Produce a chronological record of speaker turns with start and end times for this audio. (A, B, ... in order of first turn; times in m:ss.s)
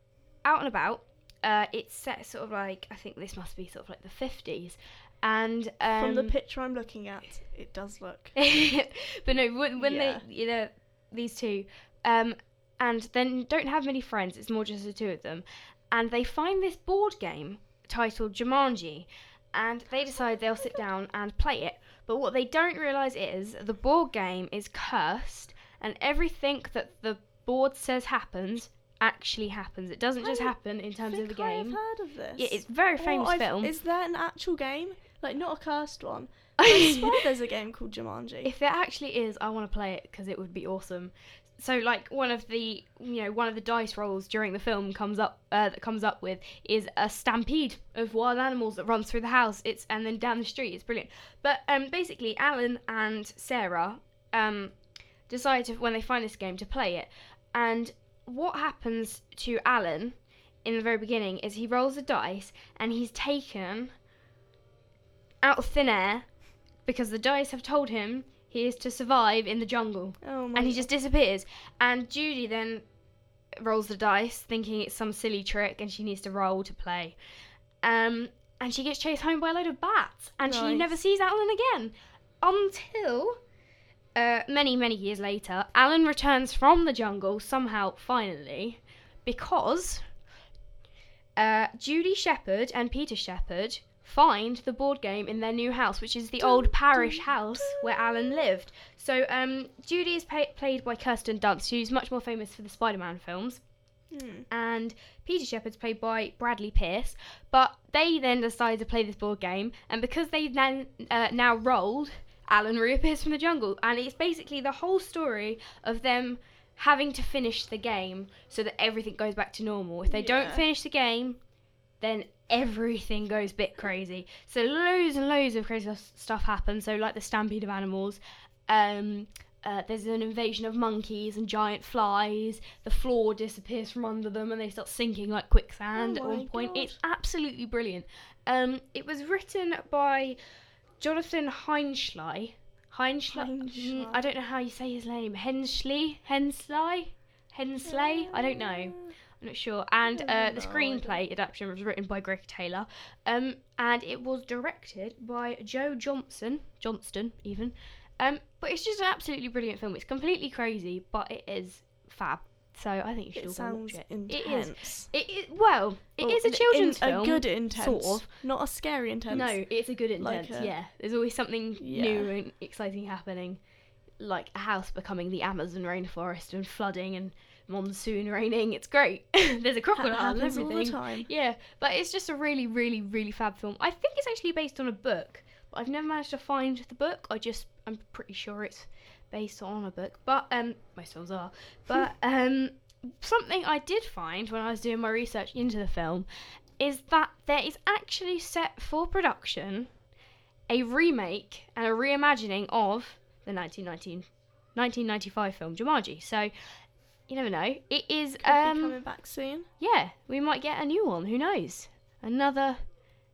0:00.4-0:06.3 A
0:05.9-0:08.4 B
0:08.4-0:31.8 A
0:09.8-0:10.2 B
0:30.2-0:38.5 B
0:32.4-0:33.7 A
0:36.6-0:37.2 A
0:38.4-0:54.7 A
0:55.3-1:03.9 A
1:05.4-1:06.3 A
1:06.9-1:12.8 A
1:10.2-1:10.9 B
1:13.6-1:17.2 A
1:17.8-1:23.4 A
1:20.4-1:20.9 B
1:24.2-1:30.0 A
1:31.4-1:43.6 A
1:36.4-1:37.9 B
1:44.1-1:44.5 B
1:44.5-2:01.4 A
2:00.1-2:00.7 B
2:02.0-2:20.4 A
2:16.0-2:17.0 B
2:21.0-2:48.3 A
2:23.3-2:24.2 B
2:27.8-2:29.2 B
2:30.0-2:31.2 B
2:43.4-2:45.1 B
2:46.2-2:49.6 B
2:49.3-2:53.6 A
2:50.2-2:50.7 B
2:51.8-2:52.3 B
2:54.2-3:16.3 A
3:00.0-3:01.3 B
3:16.8-3:19.9 A
3:20.7-3:26.5 A
3:27.3-3:29.0 A
3:28.4-3:29.7 B
3:29.8-3:32.8 A